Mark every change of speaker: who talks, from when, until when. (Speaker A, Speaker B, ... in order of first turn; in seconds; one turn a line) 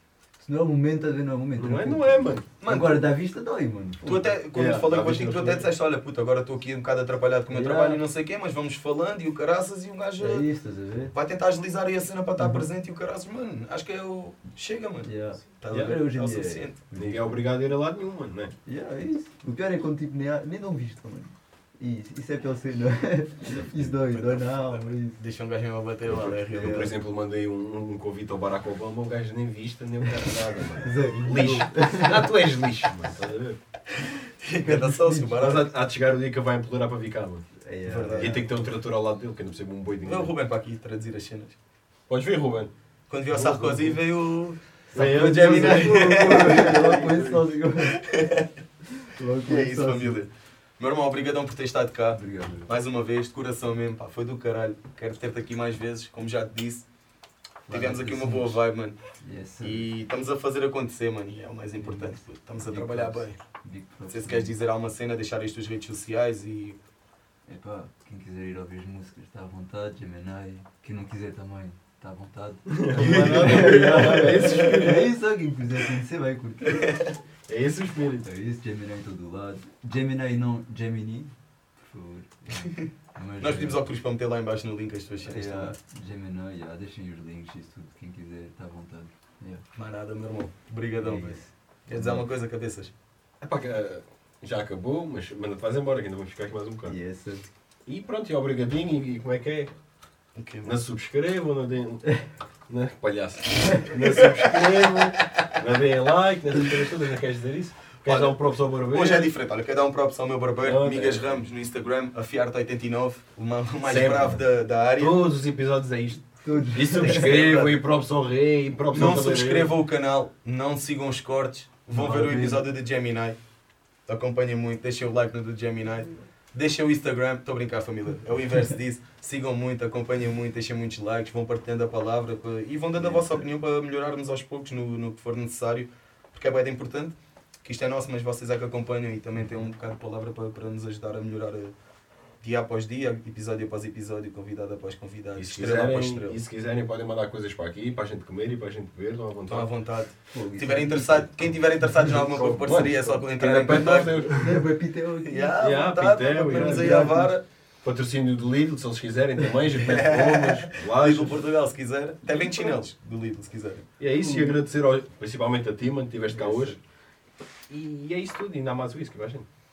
Speaker A: 0.4-4.4
Speaker B: 1.6-2.5
Speaker C: 2.6-3.1
Speaker C: 4.0-10.5
Speaker B: 4.5-5.7
Speaker A: 7.5-8.0
Speaker A: 10.2-11.1
Speaker C: 11.1-16.8
Speaker A: 12.4-12.7
Speaker A: 15.0-17.4
Speaker B: 15.7-15.9
Speaker B: 16.9-18.5
Speaker A: 18.6-25.2
Speaker C: 23.7-26.9
Speaker A: 26.0-26.9
Speaker B: 26.5-33.6
Speaker A: 30.1-32.3
Speaker C: 34.0-35.7
Speaker A: 34.6-35.6
Speaker B: 35.4-37.5
Speaker A: 37.5-38.6
Speaker C: 37.9-38.5
Speaker B: 38.1-40.3
Speaker C: 40.0-41.6
Speaker B: 42.1-42.7
Speaker C: 43.1-47.1
Speaker B: 43.3-44.0
Speaker A: 44.9-48.0
Speaker B: 44.9-47.4
Speaker C: 47.8-48.5
Speaker A: 49.0-50.2
Speaker C: 49.4-56.9
Speaker A: 52.1-52.7
Speaker A: 57.7-58.6
Speaker C: 57.7-59.0
Speaker A: 59.2-59.9
Speaker C: 59.6-63.4
Speaker A: 61.8-64.5
Speaker C: 64.1-66.8
Speaker A: 67.5-77.0
Speaker B: 72.7-75.1
Speaker C: 73.0-74.6
Speaker C: 76.7-77.1
Speaker B: 77.5-78.2
Speaker A: 78.2-83.8
Speaker C: 82.5-82.9
Speaker C: 83.4-85.7
Speaker A: 85.2-89.7
Speaker C: 89.7-92.9
Speaker A: 91.0-92.2
Speaker B: 93.4-97.0
Speaker A: 96.8-97.5
Speaker B: 97.8-99.7
Speaker C: 100.3-100.7
Speaker B: 100.6-109.3
Speaker C: 104.0-105.4
Speaker C: 108.0-115.2
Speaker B: 110.6-111.5
Speaker B: 113.8-114.4
Speaker B: 115.0-119.7
Speaker A: 116.4-117.3
Speaker C: 117.0-117.8
Speaker C: 118.9-123.4
Speaker A: 121.9-122.7
Speaker C: 124.1-141.7
Speaker A: 133.1-133.3
Speaker C: 142.4-146.4
Speaker B: 145.4-149.7
Speaker C: 149.5-154.4
Speaker A: 150.3-152.1
Speaker B: 152.1-154.6
Speaker A: 154.4-155.7
Speaker C: 155.2-157.4
Speaker B: 155.6-157.2
Speaker A: 156.5-157.3
Speaker B: 157.8-161.4
Speaker C: 159.8-163.9
Speaker B: 162.3-162.8
Speaker B: 164.0-166.8
Speaker A: 164.2-164.6
Speaker B: 167.7-169.5